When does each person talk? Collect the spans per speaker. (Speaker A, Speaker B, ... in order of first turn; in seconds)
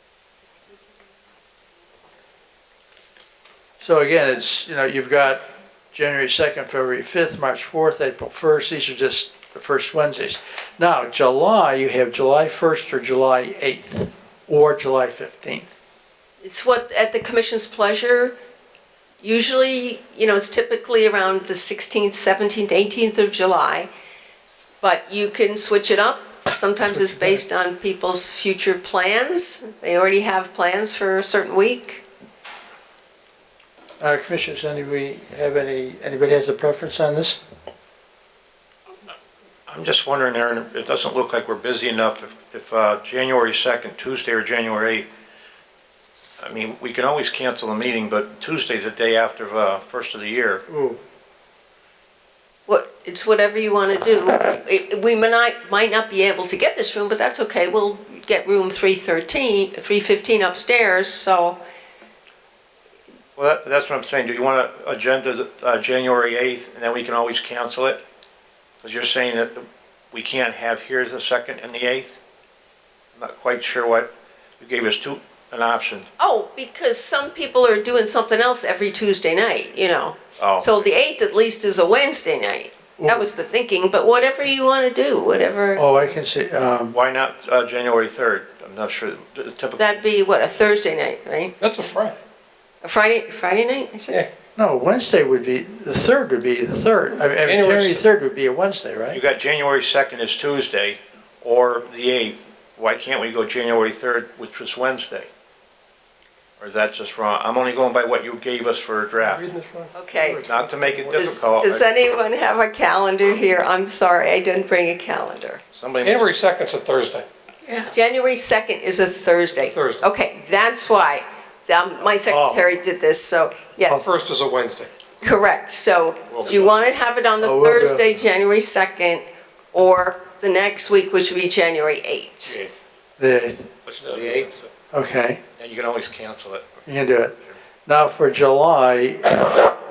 Speaker A: 3.8-15.7, 26.9-27.3, 34.0-37.4, 50.7-51.0, 83.0-83.3, 85.8-87.0, 94.6-99.2, 127.4-128.0, 133.2-133.7, 134.9-135.4, 136.9-139.6
Speaker B: 16.4-18.3, 19.2-23.9, 24.8-32.0, 52.7-61.6, 76.2-85.8, 89.8-91.5, 92.8-94.2, 109.9-110.5, 111.1-115.6, 117.8-124.0, 125.2-132.6
Speaker C: 39.7-45.1, 46.4-50.6, 63.4-68.0, 68.8-72.2, 73.2-76.1, 80.4-80.7, 86.9-90.0, 99.1-105.3, 106.6-109.5, 110.3-111.8, 115.7-116.3, 126.3-126.7, 133.9-134.5, 135.6-136.9
Speaker D: 91.6-92.2, 97.4-98.0, 109.3-111.2, 116.0-117.2, 119.7-120.0, 123.9-124.9, 134.0-134.5